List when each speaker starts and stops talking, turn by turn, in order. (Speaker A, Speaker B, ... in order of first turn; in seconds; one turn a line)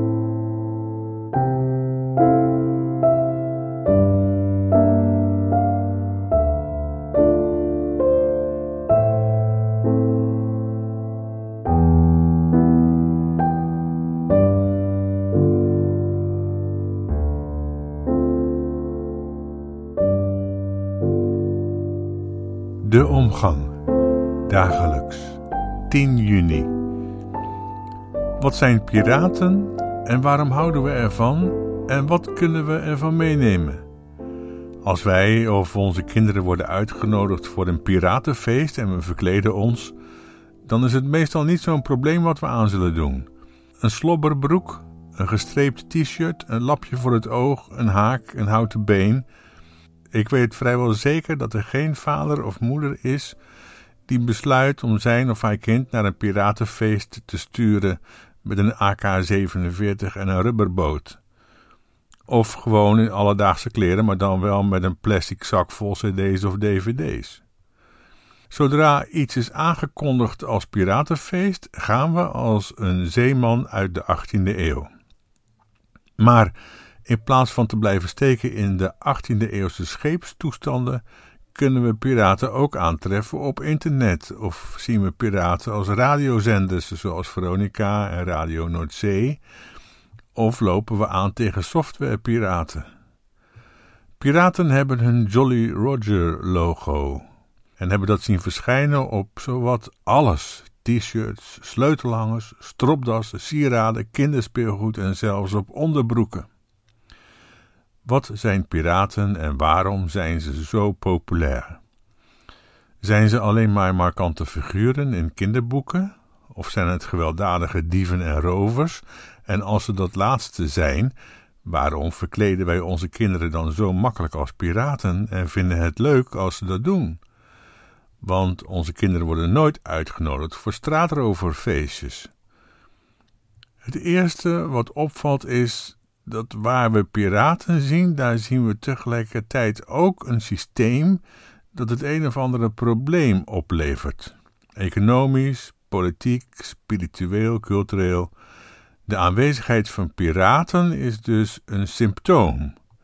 Speaker A: 22.8-23.8
Speaker A: 24.5-26.7
Speaker A: 28.4-33.9
Speaker A: 34.8-40.0
Speaker A: 40.6-43.3
Speaker A: 43.8-49.3
Speaker A: 50.1-53.4
Speaker A: 54.1-61.2
Speaker A: 62.3-67.4
Speaker A: 68.5-74.9
Speaker A: 76.2-81.0
Speaker A: 81.5-89.4
Speaker A: 90.3-92.9
Speaker A: 94.2-97.3
Speaker A: 97.8-106.5
Speaker A: 108.0-111.8
Speaker A: 113.0-127.2
Speaker A: 128.2-132.3
Speaker A: 133.8-141.2
Speaker A: 141.7-148.3
Speaker A: 149.1-152.8